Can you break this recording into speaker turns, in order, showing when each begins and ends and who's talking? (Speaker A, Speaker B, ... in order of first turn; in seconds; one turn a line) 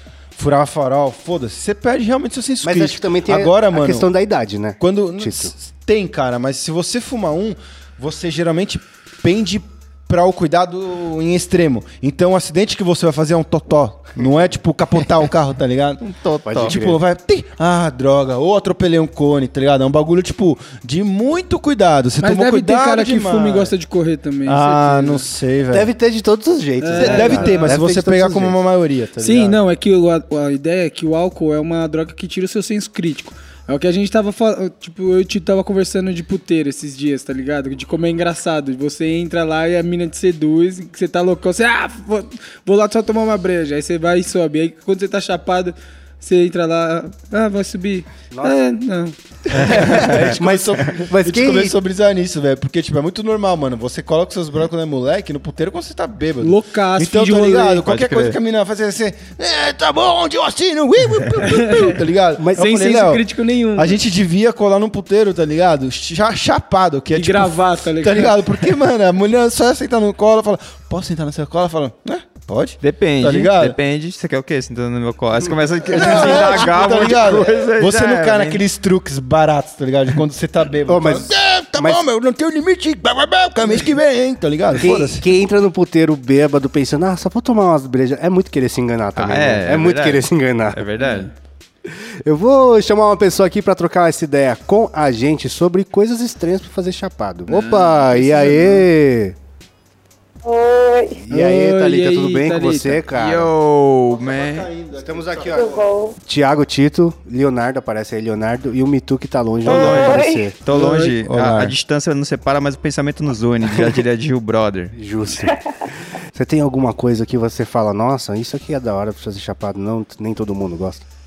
Speaker A: 0.3-4.1
Speaker B: 2.6-5.5
Speaker A: 4.8-16.0
Speaker C: 16.0-16.8
Speaker B: 16.4-17.0
Speaker A: 16.6-23.7
Speaker D: 22.2-25.2
Speaker A: 24.4-25.9
Speaker B: 25.7-28.6
Speaker D: 26.8-27.8
Speaker A: 26.9-29.6
Speaker D: 29.2-50.0
Speaker B: 48.3-48.6
Speaker A: 49.5-63.2
Speaker B: 49.6-51.8
Speaker C: 50.0-50.3
Speaker D: 56.4-57.9
Speaker C: 57.9-58.4
Speaker D: 61.4-61.9
Speaker B: 62.4-62.6
Speaker D: 62.5-64.0
Speaker A: 63.7-73.8
Speaker D: 67.1-68.4
Speaker C: 72.8-78.6
Speaker A: 75.9-85.3
Speaker B: 75.9-76.7
Speaker B: 80.9-82.0
Speaker B: 84.7-90.8
Speaker C: 89.2-91.3
Speaker D: 91.0-91.3
Speaker B: 91.8-99.3
Speaker D: 97.5-98.9
Speaker E: 100.4-101.2
Speaker B: 101.2-103.5
Speaker D: 101.3-103.0
Speaker C: 103.1-104.7
Speaker A: 104.1-105.8
Speaker B: 105.0-110.5
Speaker E: 105.5-106.2
Speaker C: 109.6-114.9
Speaker E: 109.7-110.4
Speaker D: 110.7-111.1
Speaker A: 111.2-111.7
Speaker B: 114.9-115.6
Speaker E: 115.5-115.8
Speaker B: 116.3-121.0